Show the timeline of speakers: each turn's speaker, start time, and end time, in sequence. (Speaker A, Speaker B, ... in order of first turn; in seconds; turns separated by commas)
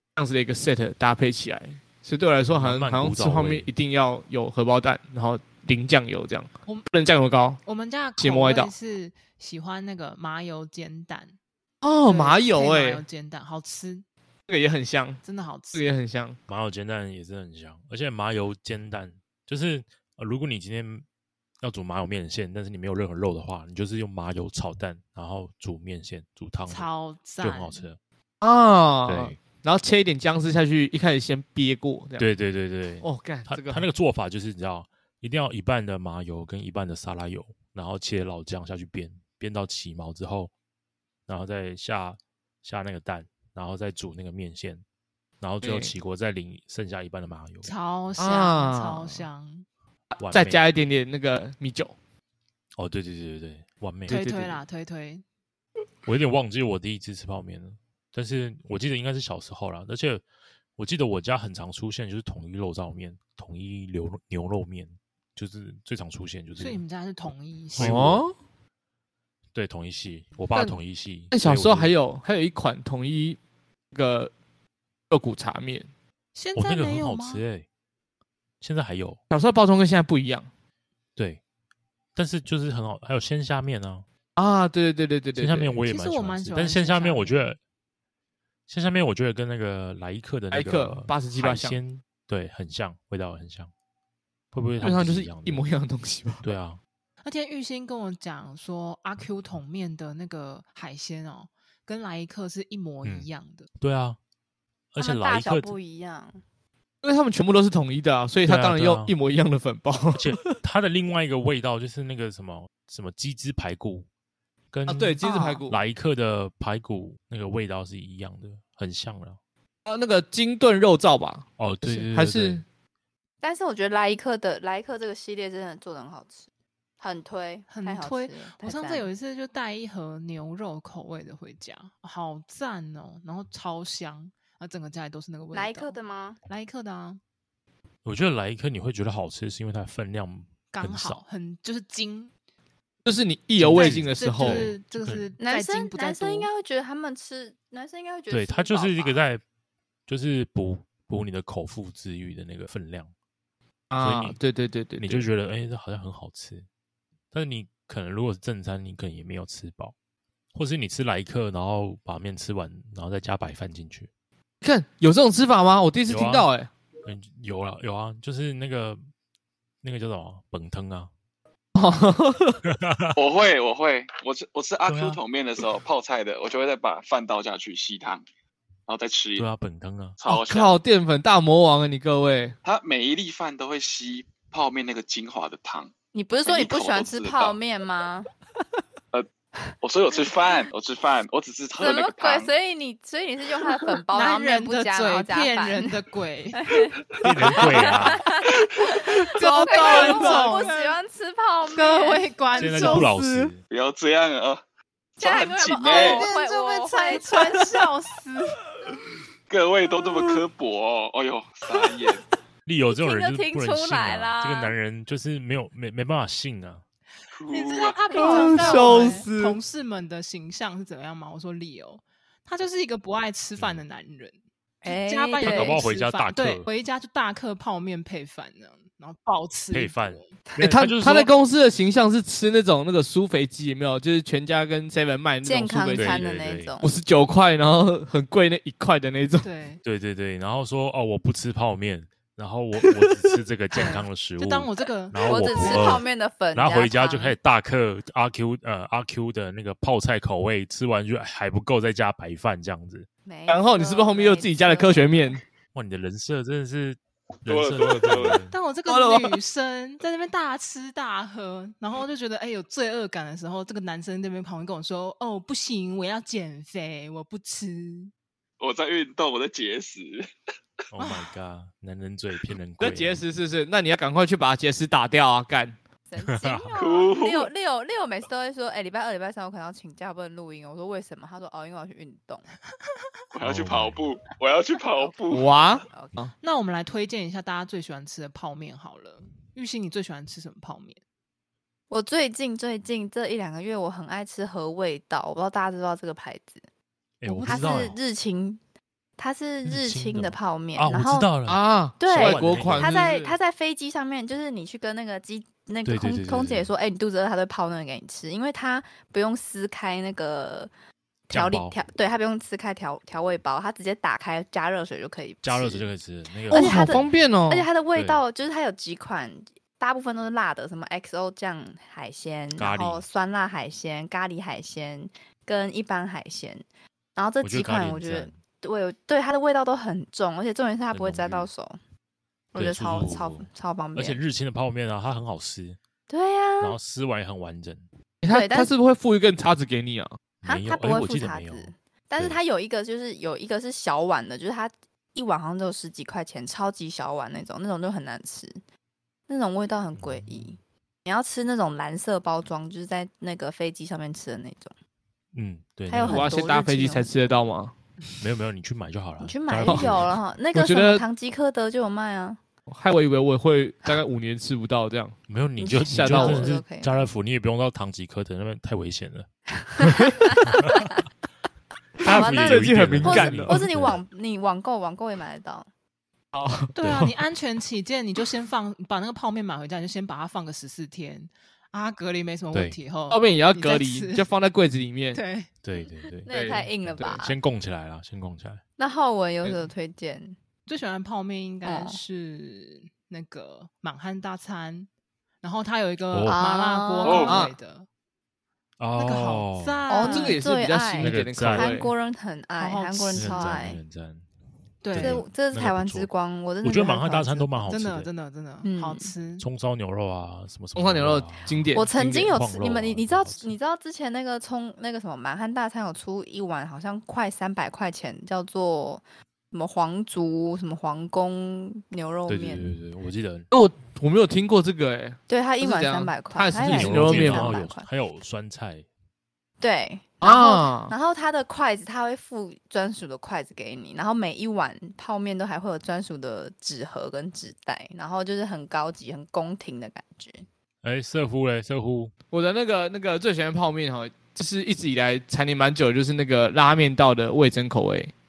Speaker A: 0.1-7.6, Speaker B: 2.5-3.7, Speaker C: 7.6-11.3, Speaker A: 8.2-8.7, Speaker A: 11.8-13.0, Speaker C: 12.0-14.0, Speaker A: 14.5-15.2, Speaker C: 15.2-15.8, Speaker A: 15.7-16.4, Speaker B: 16.5-21.0, Speaker B: 21.6-26.9, Speaker C: 26.7-27.8, Speaker B: 27.4-28.0, Speaker A: 28.4-32.3, Speaker B: 29.1-29.4, Speaker B: 32.2-40.5, Speaker A: 33.0-33.8, Speaker B: 41.3-44.8, Speaker B: 45.4-47.7, Speaker A: 45.6-45.9, Speaker C: 47.6-49.6, Speaker A: 48.2-49.3, Speaker A: 50.1-51.9, Speaker B: 50.2-50.6, Speaker B: 52.8-54.2, Speaker C: 54.1-55.2, Speaker A: 54.1-54.6, Speaker B: 56.0-60.2, Speaker B: 60.8-66.8, Speaker C: 66.6-68.1, Speaker B: 67.8-68.2, Speaker A: 67.8-68.3, Speaker B: 69.5-71.9, Speaker A: 71.3-73.4, Speaker A: 73.9-74.3, Speaker A: 75.1-75.9, Speaker C: 76.3-77.4, Speaker B: 76.5-77.7, Speaker B: 78.6-79.2, Speaker A: 79.3-80.5, Speaker B: 82.2-84.0, Speaker A: 84.4-85.7, Speaker B: 85.3-87.6, Speaker C: 85.8-87.5, Speaker B: 88.7-93.7, Speaker A: 90.5-91.8, Speaker B: 94.5-95.6, Speaker A: 94.8-96.4, Speaker B: 96.4-96.8, Speaker C: 97.2-103.7, Speaker B: 103.0-104.2, Speaker B: 104.9-105.7, Speaker D: 105.0-106.4, Speaker A: 107.0-110.5, Speaker B: 108.5-109.1, Speaker B: 110.2-114.1, Speaker B: 114.7-119.4, Speaker A: 114.9-115.8, Speaker D: 115.2-115.6, Speaker A: 119.8-122.6, Speaker B: 121.6-122.6, Speaker D: 123.4-126.5, Speaker D: 127.0-129.1, Speaker C: 127.7-135.9, Speaker D: 135.5-136.4, Speaker C: 136.5-137.2, Speaker B: 138.0-141.2, Speaker C: 140.7-142.3, Speaker A: 143.1-144.7, Speaker B: 143.6-145.3, Speaker C: 143.7-146.5, Speaker D: 145.4-149.2, Speaker B: 148.3-149.4, Speaker B: 150.1-153.1, Speaker A: 153.9-155.2, Speaker B: 154.0-154.4, Speaker B: 155.0-156.7, Speaker B: 157.3-159.9, Speaker B: 160.5-164.1, Speaker A: 164.6-166.7, Speaker B: 166.1-166.5, Speaker B: 167.0-169.0, Speaker B: 169.8-171.1, Speaker A: 171.7-172.6, Speaker B: 172.6-173.2, Speaker E: 173.1-178.2, Speaker B: 174.8-175.2, Speaker E: 178.9-179.5, Speaker B: 179.4-180.2, Speaker E: 180.2-180.7, Speaker A: 180.2-182.6, Speaker E: 182.6-185.9, Speaker D: 186.1-188.3, Speaker E: 186.5-187.6, Speaker E: 189.8-192.5, Speaker D: 191.8-195.8, Speaker C: 194.1-196.8, Speaker D: 196.6-196.9, Speaker B: 197.2-198.2, Speaker D: 197.5-202.3, Speaker A: 197.5-198.1, Speaker C: 197.6-197.9, Speaker A: 199.2-200.7, Speaker C: 199.3-201.0, Speaker C: 201.7-203.1, Speaker A: 202.5-203.5, Speaker B: 202.5-203.6, Speaker E: 203.7-204.6, Speaker E: 205.2-206.2, Speaker D: 205.2-207.6, Speaker C: 205.8-208.6, Speaker A: 207.5-207.8, Speaker E: 209.5-212.2, Speaker A: 210.0-210.4, Speaker B: 212.7-216.8, Speaker D: 213.0-214.7, Speaker E: 217.3-218.0, Speaker C: 217.5-230.3, Speaker D: 218.1-219.2, Speaker A: 218.1-219.6, Speaker B: 223.6-223.8, Speaker D: 224.8-225.9, Speaker B: 225.4-226.7, Speaker B: 229.7-231.3, Speaker A: 230.6-236.2, Speaker D: 235.4-236.9, Speaker B: 235.9-236.7, Speaker A: 236.8-239.5, Speaker C: 239.4-239.8, Speaker B: 239.8-253.1, Speaker A: 242.9-243.3, Speaker C: 243.8-246.0, Speaker D: 245.2-247.3, Speaker D: 253.2-255.4, Speaker A: 253.5-255.4, Speaker B: 255.7-258.5, Speaker E: 257.5-258.4, Speaker C: 258.5-268.1, Speaker A: 258.9-259.4, Speaker E: 268.6-270.3, Speaker B: 270.9-273.2, Speaker A: 272.8-275.8, Speaker D: 276.1-282.4, Speaker B: 276.2-276.7, Speaker E: 276.8-277.5, Speaker E: 283.3-285.8, Speaker B: 283.4-284.0, Speaker D: 284.9-286.2, Speaker A: 285.3-286.3, Speaker C: 286.4-291.0, Speaker D: 291.9-296.6, Speaker B: 297.2-298.0, Speaker C: 297.2-297.9, Speaker D: 297.4-298.6, Speaker D: 299.2-301.3, Speaker B: 299.6-302.9, Speaker A: 301.5-303.3, Speaker D: 302.0-310.7, Speaker B: 305.8-306.7, Speaker D: 311.3-315.8, Speaker B: 311.3-311.8, Speaker B: 315.4-317.1, Speaker A: 316.5-317.6, Speaker D: 316.5-326.6, Speaker B: 317.9-318.2, Speaker B: 322.6-323.0, Speaker D: 327.1-331.8, Speaker B: 327.4-328.3, Speaker B: 330.9-331.5, Speaker D: 332.5-334.2, Speaker B: 332.5-335.8, Speaker D: 336.1-336.8, Speaker B: 336.6-337.9, Speaker A: 338.2-340.2, Speaker D: 338.3-338.7, Speaker B: 340.4-342.4, Speaker D: 340.4-348.6, Speaker D: 349.3-354.7, Speaker B: 349.9-350.5, Speaker B: 355.3-356.4, Speaker D: 355.9-357.1, Speaker A: 356.0-357.7, Speaker B: 358.2-360.1, Speaker D: 359.2-362.4, Speaker A: 359.7-360.0, Speaker A: 360.5-361.0, Speaker A: 362.7-365.2, Speaker B: 365.3-369.3, Speaker D: 365.6-367.1, Speaker A: 365.9-366.5, Speaker D: 369.7-370.8, Speaker B: 369.8-370.8, Speaker A: 372.0-373.7, Speaker B: 372.0-373.9, Speaker D: 372.0-375.7, Speaker A: 376.3-377.1, Speaker C: 376.8-384.2, Speaker A: 383.1-385.2, Speaker C: 385.1-385.5, Speaker B: 385.6-386.3, Speaker D: 385.7-387.4, Speaker A: 386.3-387.2, Speaker B: 386.8-388.6, Speaker D: 388.8-390.4, Speaker C: 390.6-394.9, Speaker D: 391.6-392.0, Speaker C: 395.4-397.9, Speaker B: 396.1-396.4, Speaker D: 396.2-397.4, Speaker E: 397.0-397.4, Speaker A: 397.3-397.5, Speaker B: 398.8-399.8, Speaker C: 399.0-400.4, Speaker D: 399.9-403.8, Speaker A: 400.0-401.9, Speaker B: 401.0-401.7, Speaker C: 402.6-403.6, Speaker B: 403.1-404.2, Speaker C: 404.8-405.2, Speaker B: 404.9-406.1, Speaker D: 404.9-407.7, Speaker B: 406.6-408.1, Speaker C: 407.7-409.4, Speaker D: 408.6-409.1, Speaker B: 409.4-413.5, Speaker A: 410.7-412.3, Speaker D: 411.7-422.7, Speaker B: 422.3-423.5, Speaker A: 423.5-427.6, Speaker D: 425.3-427.9, Speaker B: 426.6-428.9, Speaker D: 429.6-440.4, Speaker A: 430.2-430.9, Speaker B: 440.8-442.1, Speaker A: 442.3-448.1